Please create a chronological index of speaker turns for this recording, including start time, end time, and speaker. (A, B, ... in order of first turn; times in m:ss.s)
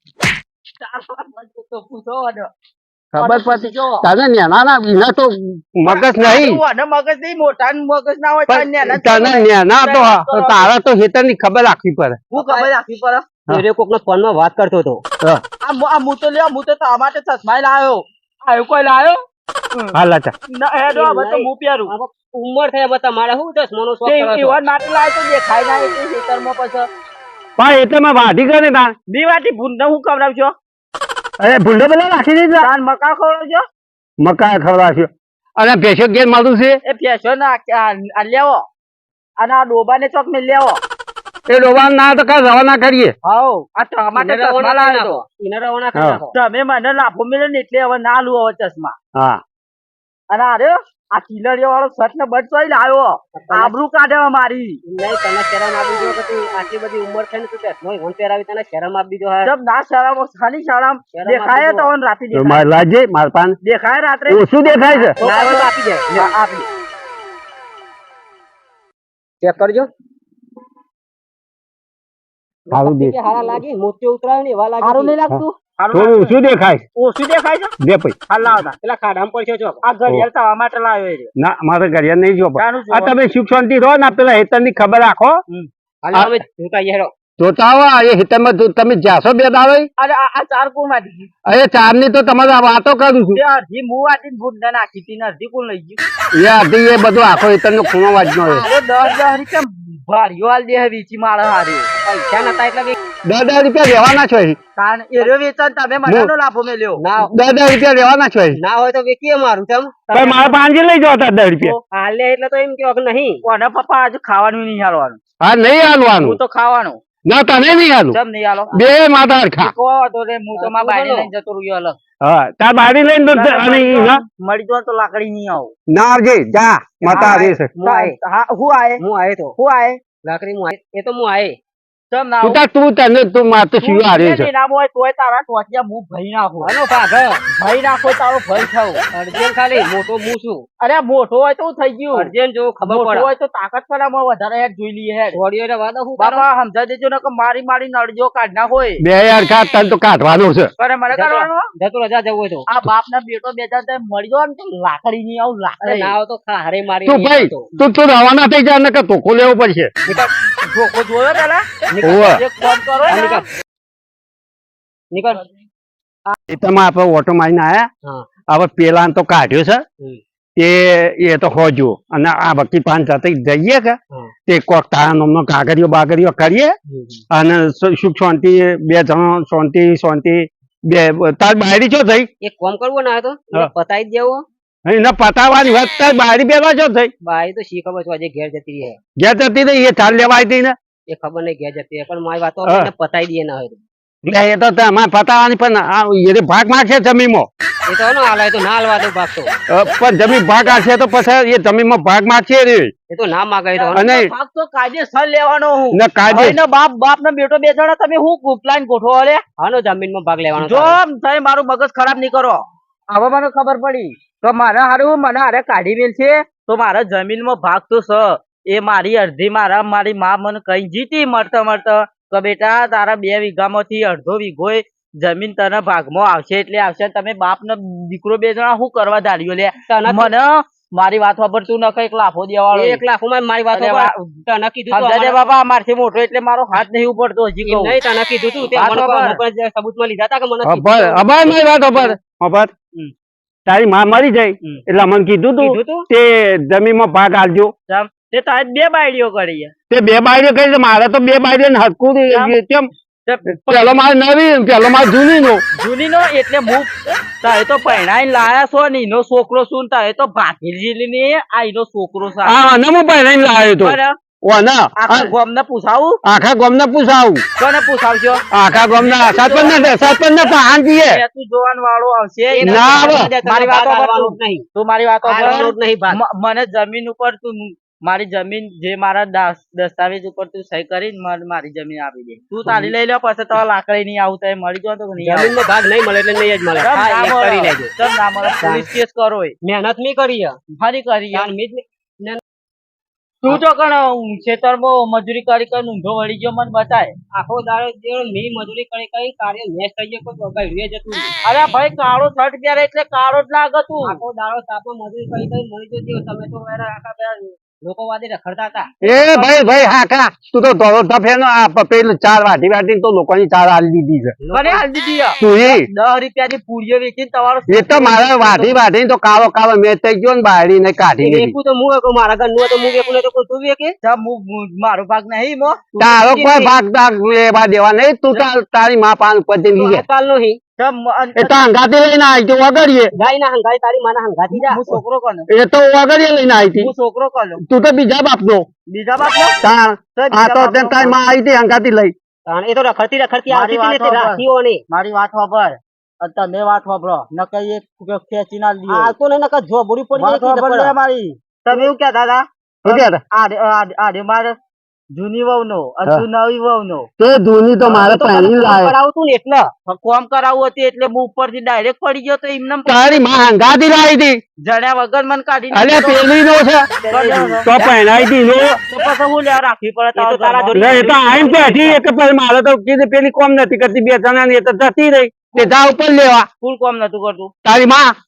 0:00.8-0:02.5 A
0:03.1-0:06.6 B
0:03.2-0:04.0 A
0:05.8-0:10.7 A
0:08.5-0:12.2 B
0:12.3-0:13.3 A
0:12.3-0:12.7 C
0:13.5-0:15.0 C
0:15.6-0:19.2 A
0:19.9-0:20.3 B
0:20.5-0:21.9 A
0:20.9-0:24.6 C
0:24.0-0:26.9 A
0:27.6-0:28.9 B
0:29.1-0:30.5 A
0:31.4-0:32.7 B
0:32.6-0:33.6 A
0:34.2-0:36.8 B
0:36.8-0:38.6 A
0:39.4-0:40.8 A
0:41.5-0:43.1 B
0:43.2-0:45.2 A
0:44.2-0:46.3 C
0:45.9-0:46.2 B
0:46.3-0:48.9 A
0:49.1-0:49.4 B
0:50.3-0:54.8 A
0:53.3-0:53.7 C
0:54.8-0:59.5 C
0:59.4-1:02.7 A
1:01.1-1:01.9 C
1:02.3-1:03.6 B
1:03.6-1:06.7 A
1:04.3-1:05.2 B
1:05.2-1:06.3 C
1:09.4-1:09.9 C
1:12.7-1:15.2 C
1:12.7-1:13.2 B
1:14.8-1:16.3 A
1:15.3-1:16.8 B
1:16.9-1:17.7 A
1:17.8-1:18.2 B
1:18.3-1:18.7 A
1:18.7-1:19.8 C
1:19.8-1:21.3 A
1:21.4-1:25.4 B
1:22.6-1:23.2 A
1:26.0-1:27.1 C
1:27.4-1:29.9 B
1:30.0-1:31.3 A
1:31.5-1:33.4 B
1:33.3-1:36.0 A
1:36.3-1:38.6 B
1:38.4-1:41.9 A
1:42.0-1:42.9 C
1:43.2-1:44.6 B
1:44.8-1:47.0 A
1:46.0-1:46.3 B
1:47.0-1:47.3 C
1:47.2-1:48.6 B
1:48.5-1:50.5 C
1:50.1-1:51.8 B
1:51.9-1:53.4 C
1:53.4-1:55.2 A
1:55.4-1:56.4 B
1:56.2-1:57.0 A
1:57.2-1:58.2 B
1:58.1-1:58.7 A
1:58.7-1:59.7 B
1:59.6-2:02.0 A
2:00.6-2:01.3 C
2:02.2-2:04.2 B
2:03.3-2:05.7 A
2:05.9-2:07.7 B
2:07.1-2:08.2 C
2:07.1-2:09.0 A
2:09.0-2:09.5 C
2:09.6-2:10.0 A
2:10.2-2:11.6 C
2:12.1-2:12.6 A
2:12.4-2:14.5 B
2:13.8-2:16.7 A
2:16.6-2:17.4 C
2:17.5-2:19.0 A
2:19.1-2:20.6 C
2:20.8-2:22.3 A
2:22.1-2:23.3 C
2:22.8-2:25.4 A
2:25.3-2:26.4 C
2:26.2-2:29.0 A
2:29.0-2:30.7 B
2:30.8-2:31.7 A
2:31.1-2:32.6 C
2:32.7-2:36.1 A
2:35.8-2:37.7 C
2:37.0-2:39.9 B
2:40.1-2:41.7 A
2:41.9-2:42.3 C
2:42.0-2:42.4 B
2:42.2-2:43.4 A
2:43.1-2:43.4 C
2:45.1-2:45.4 C
2:46.5-2:47.9 B
2:48.5-2:49.8 B
2:50.6-2:56.7 B
2:56.9-2:57.2 C
2:57.3-3:02.3 B
3:02.4-3:04.4 C
3:04.8-3:07.1 B
3:07.2-3:09.0 C
3:09.2-3:10.7 B
3:11.1-3:13.8 C
3:12.6-3:12.9 B
3:14.2-3:17.5 B
3:17.9-3:19.5 C
3:19.7-3:22.9 B
3:23.1-3:24.0 C
3:23.7-3:29.4 A
3:23.9-3:24.3 B
3:25.9-3:26.6 B
3:29.6-3:31.0 C
3:30.6-3:53.0 A
3:49.9-3:50.3 C
3:52.7-3:55.4 C
3:53.7-3:54.1 A
3:54.9-3:58.0 A
3:57.6-4:02.2 C
3:58.7-3:59.4 A
4:00.6-4:02.7 B
4:03.7-4:07.7 B
4:05.6-4:06.0 C
4:07.9-4:09.7 A
4:09.9-4:12.9 B
4:12.3-4:12.6 A
4:13.2-4:13.9 A
4:13.5-4:15.6 B
4:15.8-4:22.6 A
4:22.4-4:25.3 B
4:23.8-4:24.2 A
4:25.0-4:26.2 A
4:26.2-4:27.4 B
4:27.6-4:28.4 A
4:28.5-4:31.2 B
4:28.9-4:29.9 A
4:31.0-4:45.6 A
4:32.5-4:34.6 C
4:32.6-4:33.3 B
4:35.2-4:36.2 C
4:45.2-4:47.9 C
4:46.8-4:49.5 A
4:48.6-4:48.9 C
4:49.6-4:50.6 C
4:50.8-4:51.5 A
4:51.3-4:52.4 C
4:53.4-4:57.1 A
4:57.3-5:01.3 C
5:01.4-5:04.2 A
5:04.0-5:08.9 C
5:09.0-5:09.5 A
5:09.0-5:14.4 B
5:14.4-5:14.8 C
5:14.5-5:18.8 A
5:15.4-5:15.9 B
5:17.7-5:21.5 B
5:21.2-5:23.9 C
5:24.0-5:26.1 A
5:26.0-5:30.0 B
5:26.2-5:26.6 C
5:29.7-5:30.6 C
5:30.8-5:31.7 A
5:31.4-5:33.1 B
5:33.1-5:34.8 C
5:34.5-5:35.5 A
5:35.5-5:36.9 B
5:36.7-5:37.6 A
5:37.6-5:38.6 B
5:38.9-5:39.6 A
5:39.6-5:42.1 B
5:40.1-5:41.2 A
5:42.5-5:44.8 C
5:43.5-5:49.1 A
5:48.9-5:50.9 C
5:50.2-5:54.6 A
5:52.8-5:53.2 B
5:55.1-5:57.1 A
5:57.2-5:58.9 B
5:57.8-5:59.7 C
5:59.8-6:03.2 A
6:02.8-6:04.4 B
6:04.6-6:06.2 A
6:05.7-6:06.9 B
6:07.0-6:07.5 C
6:07.1-6:08.0 A
6:07.6-6:08.8 B
6:08.9-6:12.0 A
6:10.1-6:11.7 C
6:10.7-6:16.5 B
6:16.6-6:17.5 A
6:17.6-6:18.1 B